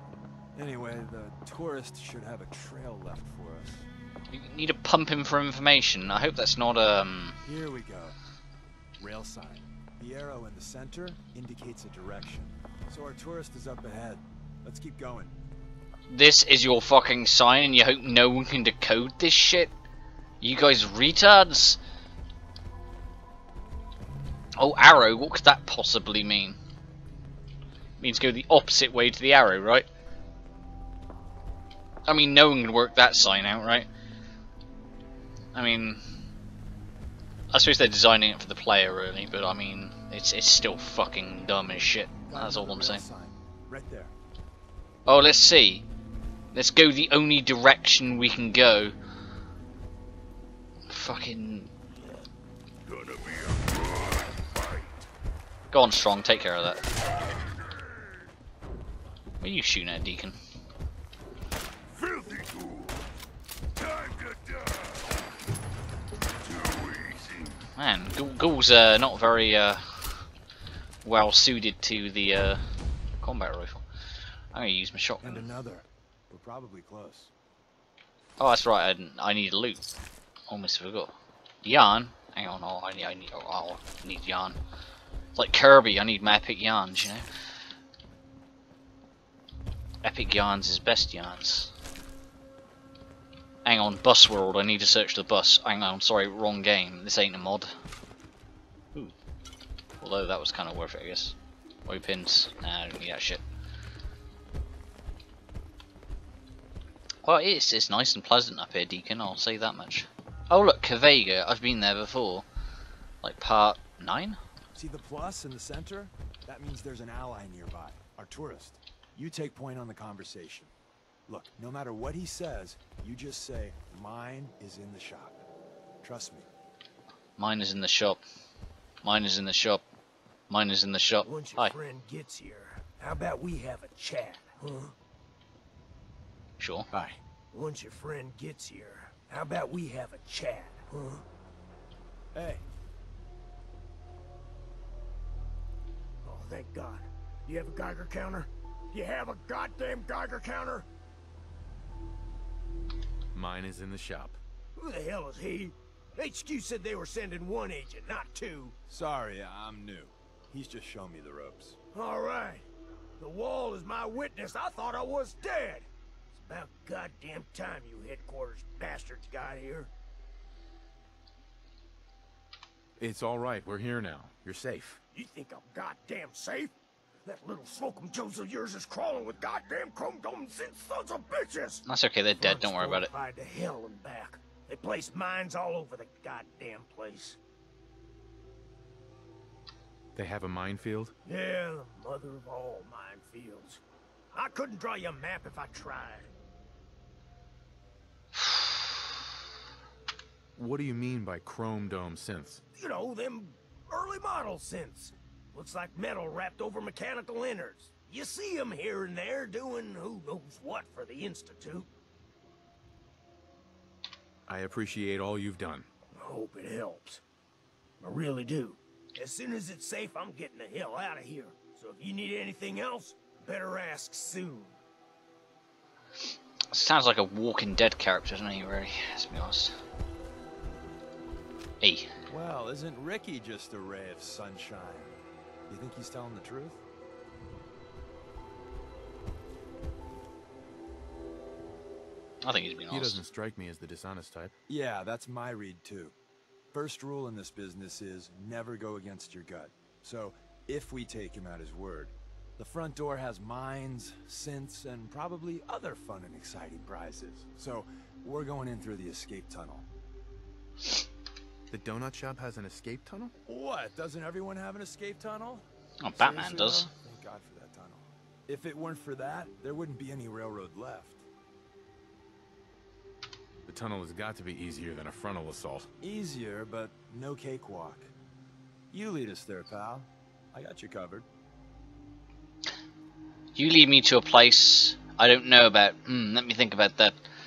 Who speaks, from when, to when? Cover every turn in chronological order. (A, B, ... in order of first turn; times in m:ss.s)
0:00.6-0:03.9 A
0:04.3-0:07.4 B
0:07.4-0:08.2 A
0:09.0-0:15.4 A
0:16.1-0:19.7 B
0:20.4-0:21.8 B
0:24.6-0:26.6 B
0:28.0-0:29.9 B
0:32.1-0:33.9 B
0:35.6-0:36.0 B
0:37.5-0:43.0 B
0:42.3-0:44.1 A
0:45.1-0:45.8 B
0:46.5-0:48.9 B
0:50.9-0:51.7 B
0:52.8-0:55.0 C
0:55.7-0:56.8 B
0:57.2-0:58.3 C
0:59.4-1:00.4 B
1:01.9-1:03.0 C
1:03.8-1:05.2 C
1:06.4-1:07.6 C
1:07.8-1:10.2 B
1:11.0-1:12.6 B
1:13.2-1:13.8 B
1:14.5-1:15.5 B
1:15.2-1:17.3 A
1:18.4-1:19.8 B
1:20.5-1:21.1 B
1:21.6-1:24.6 B
1:25.4-1:27.2 B
1:30.0-1:31.7 B
1:33.6-1:37.8 B
1:40.0-1:41.4 B
1:41.9-1:43.4 B
1:47.2-1:52.5 B
1:53.2-1:54.4 B
1:54.8-2:00.7 A
2:01.3-2:05.4 A
2:06.0-2:06.5 A
2:07.4-2:08.2 B
2:09.0-2:09.8 B
2:10.5-2:11.7 B
2:11.2-2:14.9 D
2:16.6-2:16.9 B
2:17.5-2:21.2 D
2:22.3-2:22.6 A
2:26.2-2:30.9 D
2:33.3-2:34.4 E
2:34.8-2:38.8 D
2:38.9-2:41.8 A
2:41.9-2:42.7 D
2:43.2-2:49.9 D
2:53.0-2:55.0 E
2:55.1-2:56.7 D
2:57.2-3:01.8 D
3:01.9-3:03.1 B
3:02.4-3:07.4 D
3:10.2-3:11.1 E
3:11.2-3:13.8 D
3:14.3-3:16.3 D
3:18.4-3:18.7 B
3:20.6-3:22.6 E
3:22.8-3:31.9 D
3:34.5-3:35.9 E
3:36.2-3:37.2 D
3:38.0-3:44.8 D
3:46.7-3:49.8 B
3:51.8-3:52.1 B
3:52.3-3:56.8 A
4:02.4-4:03.2 B
4:02.9-4:04.5 E
4:04.7-4:06.2 A
4:06.7-4:19.9 A
4:21.7-4:23.3 E
4:23.5-4:31.2 A
4:26.0-4:26.9 B
4:33.7-4:35.9 E
4:36.0-4:38.1 A
4:38.9-4:41.3 A
4:43.6-4:47.2 B